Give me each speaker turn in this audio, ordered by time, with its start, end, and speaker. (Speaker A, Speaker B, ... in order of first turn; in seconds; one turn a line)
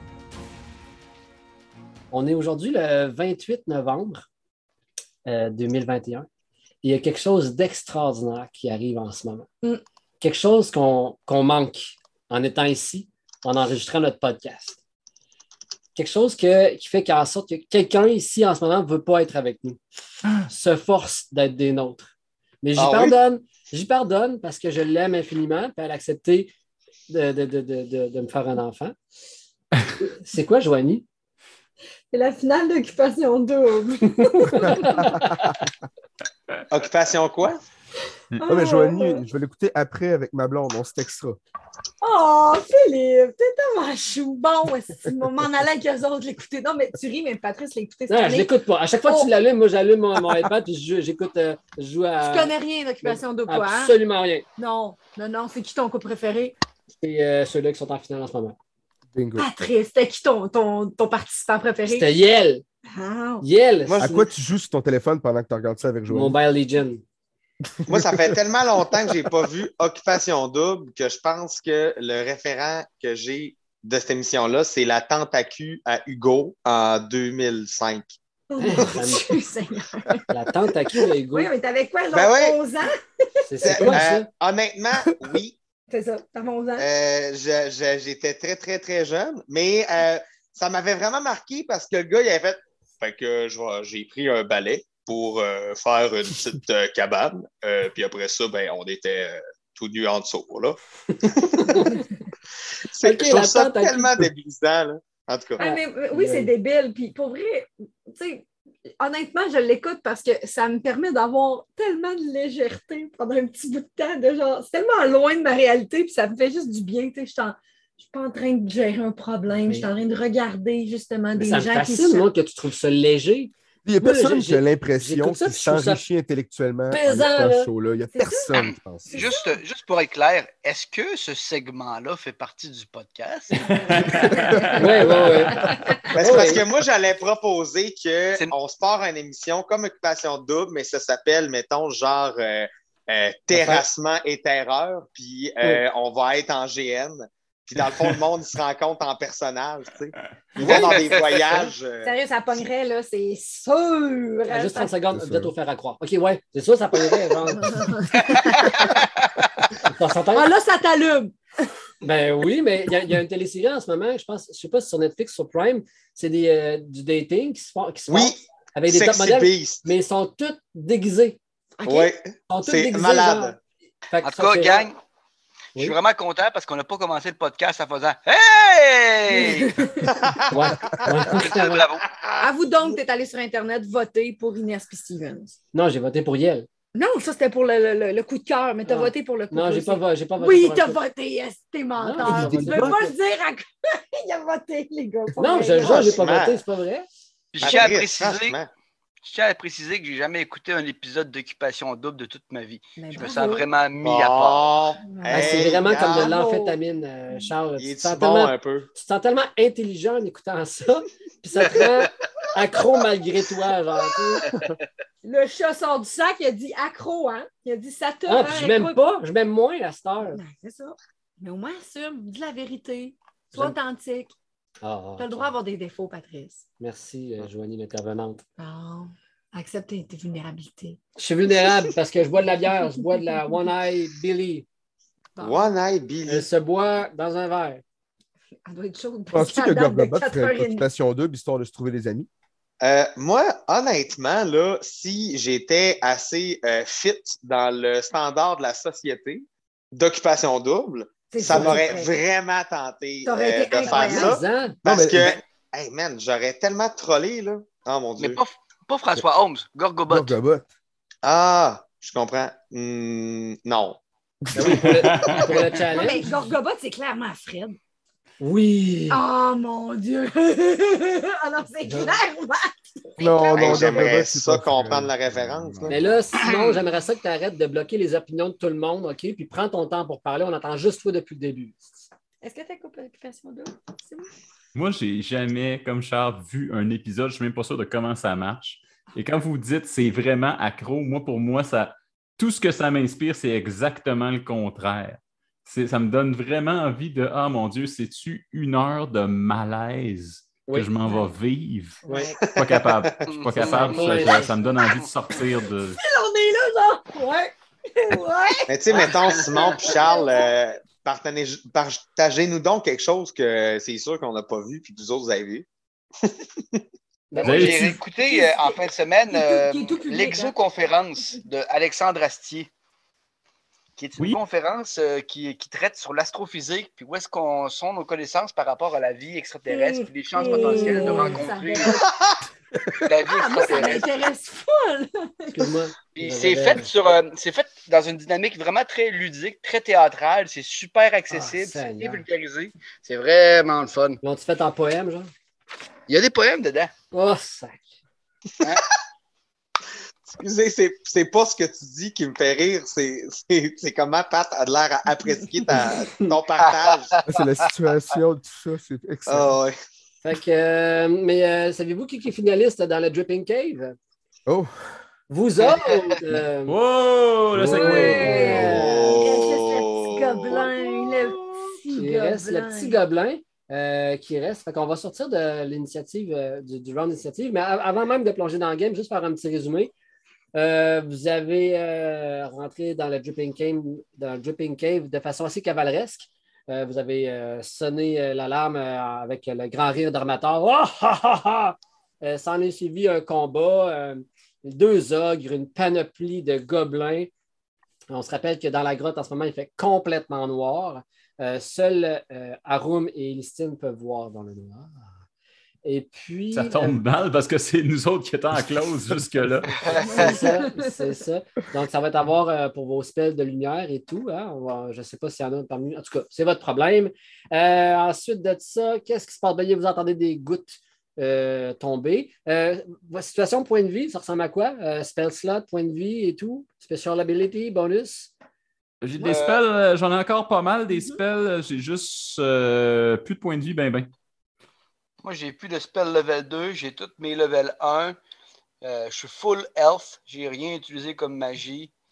Speaker A: 2.1-4.3
Speaker A: 5.3-6.3
Speaker A: 6.8-9.5
Speaker A: 10.2-14.8
Speaker A: 15.9-19.8
Speaker A: 20.4-22.1
Speaker A: 22.6-26.5
Speaker B: 22.8-23.1
Speaker A: 27.1-28.9
Speaker A: 30.0-31.1
Speaker C: 32.1-35.1
Speaker A: 34.1-35.5
Speaker D: 34.9-35.5
Speaker B: 36.7-37.6
Speaker C: 38.4-39.2
Speaker D: 38.5-41.4
Speaker C: 42.0-48.5
Speaker A: 48.1-54.5
Speaker C: 49.1-49.3
Speaker C: 52.2-54.0
Speaker C: 54.6-56.5
Speaker A: 57.0-58.6
Speaker D: 59.1-59.5
Speaker C: 59.4-62.2
Speaker A: 61.9-62.6
Speaker C: 62.9-63.5
Speaker A: 63.4-64.3
Speaker D: 63.9-66.4
Speaker A: 66.1-67.0
Speaker B: 67.9-78.1
Speaker D: 67.9-68.3
Speaker C: 78.5-80.3
Speaker A: 78.6-79.3
Speaker A: 80.3-81.5
Speaker C: 80.9-83.0
Speaker B: 82.1-82.6
Speaker A: 83.5-84.3
Speaker B: 83.6-85.6
Speaker C: 85.9-86.9
Speaker B: 86.8-101.9
Speaker A: 101.4-102.1
Speaker B: 102.9-105.6
Speaker A: 103.0-104.3
Speaker C: 105.6-108.5
Speaker A: 105.6-106.5
Speaker C: 109.0-122.3
Speaker A: 119.6-119.9
Speaker A: 121.3-126.0
Speaker D: 123.8-129.3
Speaker A: 126.9-127.7
Speaker C: 128.1-128.6
Speaker E: 128.5-134.3
Speaker C: 129.1-129.6
Speaker F: 133.6-135.8
Speaker C: 134.0-134.7
Speaker A: 134.8-135.7
Speaker C: 135.7-136.1
Speaker B: 136.1-152.2
Speaker A: 136.2-136.6
Speaker A: 143.5-143.8
Speaker A: 150.6-151.0
Speaker E: 151.0-151.4
Speaker C: 152.0-154.9
Speaker A: 154.5-157.8
Speaker D: 155.1-155.5
Speaker C: 157.6-159.0
Speaker E: 158.2-159.1
Speaker A: 159.8-160.5
Speaker C: 160.3-161.3
Speaker A: 162.0-171.4
Speaker B: 168.1-169.8
Speaker C: 171.8-172.1
Speaker B: 171.9-173.6
Speaker A: 172.5-173.6
Speaker A: 174.1-174.9
Speaker E: 174.2-175.0
Speaker E: 175.8-179.9
Speaker C: 179.3-180.3
Speaker B: 180.1-181.1
Speaker A: 180.5-181.8
Speaker E: 181.1-182.1
Speaker B: 182.2-182.5
Speaker C: 182.4-185.6
Speaker A: 185.7-186.7
Speaker C: 186.9-196.2
Speaker A: 188.9-191.0
Speaker A: 192.0-193.1
Speaker D: 192.3-192.9
Speaker A: 195.4-197.1
Speaker B: 195.8-196.6
Speaker E: 197.5-198.6
Speaker B: 197.6-198.7
Speaker E: 199.2-204.8
Speaker C: 203.0-203.7
Speaker B: 204.0-206.3
Speaker C: 205.0-206.8
Speaker A: 205.3-214.8
Speaker B: 207.8-208.9
Speaker C: 215.2-219.2
Speaker A: 218.3-220.4
Speaker C: 220.3-224.3
Speaker A: 224.8-225.5
Speaker C: 225.2-226.6
Speaker A: 226.8-228.4
Speaker C: 228.6-231.0
Speaker A: 231.2-234.7
Speaker C: 235.4-235.7
Speaker B: 235.4-236.5
Speaker A: 236.3-237.8
Speaker C: 238.7-240.9
Speaker D: 239.3-242.3
Speaker B: 242.8-258.4
Speaker C: 251.3-252.1
Speaker C: 253.3-254.4
Speaker A: 253.8-254.8
Speaker D: 254.8-255.4
Speaker E: 258.2-260.4
Speaker D: 260.1-260.7
Speaker B: 261.2-264.0
Speaker A: 264.6-266.5
Speaker D: 264.6-265.3
Speaker F: 264.8-265.4
Speaker C: 265.9-267.8
Speaker A: 268.4-269.2
Speaker C: 269.1-274.1
Speaker D: 273.2-275.9
Speaker B: 273.5-276.0
Speaker A: 275.9-282.0
Speaker C: 282.4-284.3
Speaker F: 284.8-302.0
Speaker A: 300.7-300.9
Speaker A: 302.1-302.3
Speaker C: 302.1-302.4
Speaker B: 302.5-303.3
Speaker F: 302.6-306.0
Speaker E: 303.3-304.2
Speaker A: 303.5-304.5
Speaker C: 305.4-310.5
Speaker B: 308.7-315.7
Speaker E: 309.0-309.6
Speaker B: 316.2-316.8
Speaker A: 317.3-318.0
Speaker E: 317.4-322.7
Speaker F: 317.4-318.0
Speaker C: 318.1-320.5
Speaker E: 324.0-332.0
Speaker C: 329.7-332.1
Speaker A: 330.4-331.5
Speaker E: 333.1-334.1
Speaker C: 333.3-335.6
Speaker A: 335.5-336.9
Speaker E: 336.1-344.2
Speaker A: 341.3-342.2
Speaker A: 344.2-345.3
Speaker E: 346.1-346.9
Speaker A: 347.1-347.9
Speaker B: 350.3-357.1
Speaker A: 355.8-356.3
Speaker E: 356.7-357.2
Speaker D: 357.3-359.6
Speaker B: 359.3-359.7
Speaker A: 360.2-364.0
Speaker D: 364.5-364.7
Speaker A: 365.3-366.8
Speaker F: 366.7-368.8
Speaker A: 367.5-369.2
Speaker C: 367.7-373.0
Speaker B: 368.8-370.6
Speaker A: 372.0-379.9
Speaker A: 380.6-397.3
Speaker A: 398.1-405.1
Speaker A: 405.8-407.0
Speaker F: 406.5-410.2
Speaker C: 409.9-411.2
Speaker A: 410.0-428.3
Speaker F: 429.0-434.1
Speaker E: 429.2-429.6
Speaker E: 435.2-438.2
Speaker E: 438.8-441.9